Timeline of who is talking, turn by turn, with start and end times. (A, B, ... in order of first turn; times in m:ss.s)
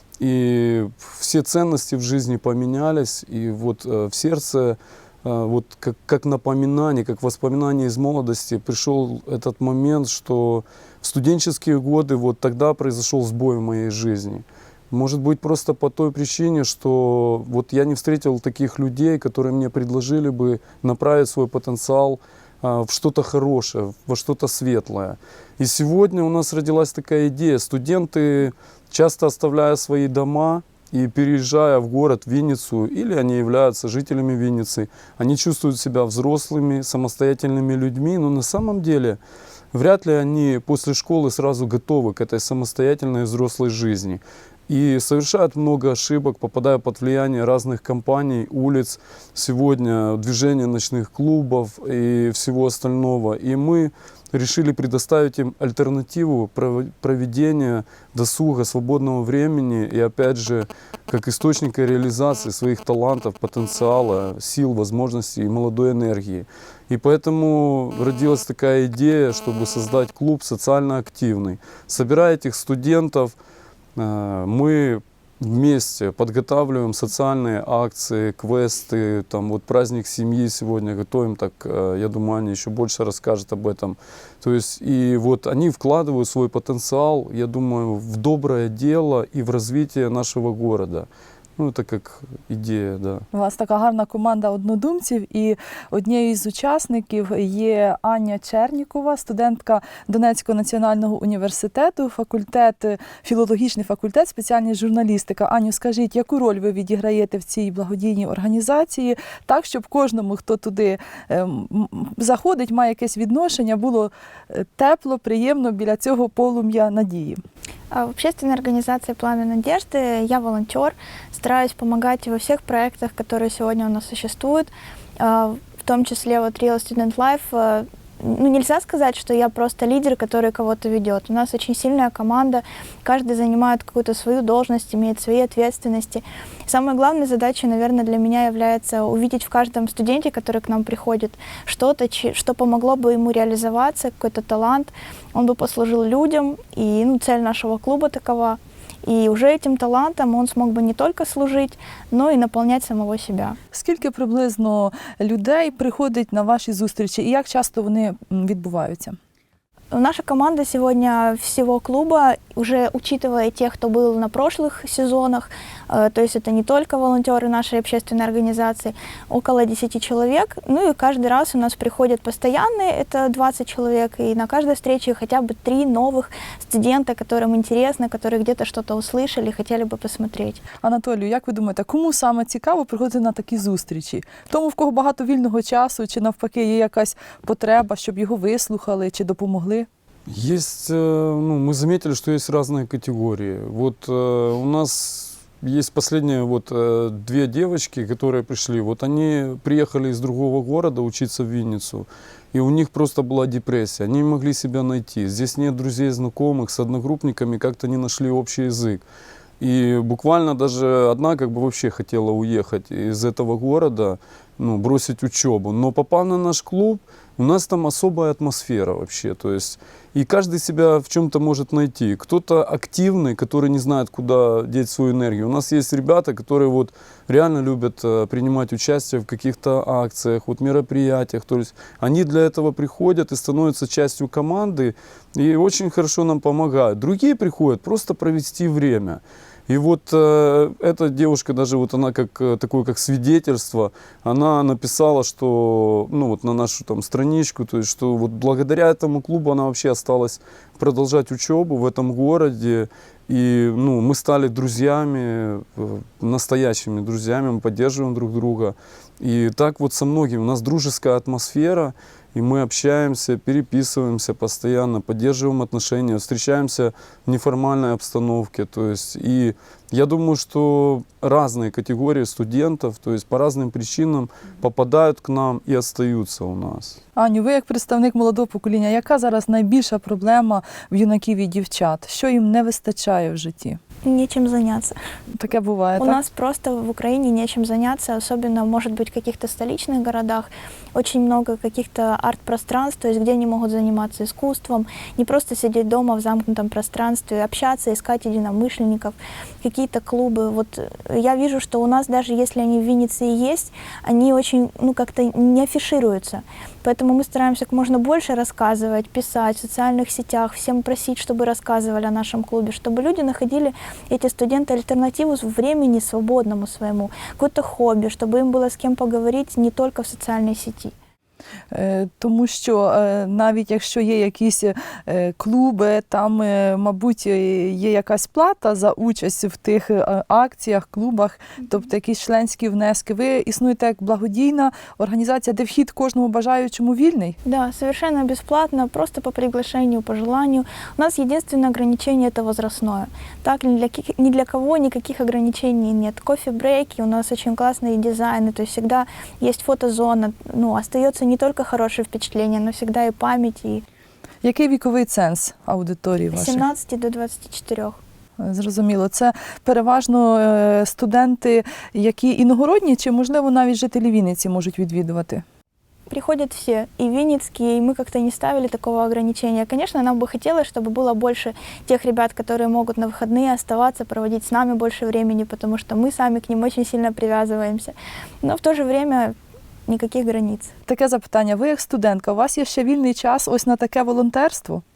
0:00.2-0:39.2 A
0:39.7-1:13.3 A
1:14.0-1:33.2 A
1:33.3-1:57.4 B
1:57.9-2:33.6 C
2:33.7-2:39.2 B
2:39.9-3:00.6 C
3:00.8-3:09.9 B
3:10.3-3:29.0 A
3:29.6-4:37.0 A
4:37.2-4:43.8 B
4:44.0-4:45.0 C
4:45.4-4:46.2 B
4:46.0-5:20.9 C
5:21.7-5:37.4 B
5:37.4-5:53.8 C
5:54.4-5:56.6 B
5:56.3-5:58.0 C
5:58.4-6:05.4 B
6:06.1-6:19.4 C
6:19.9-6:20.7 C
6:20.9-6:24.8 B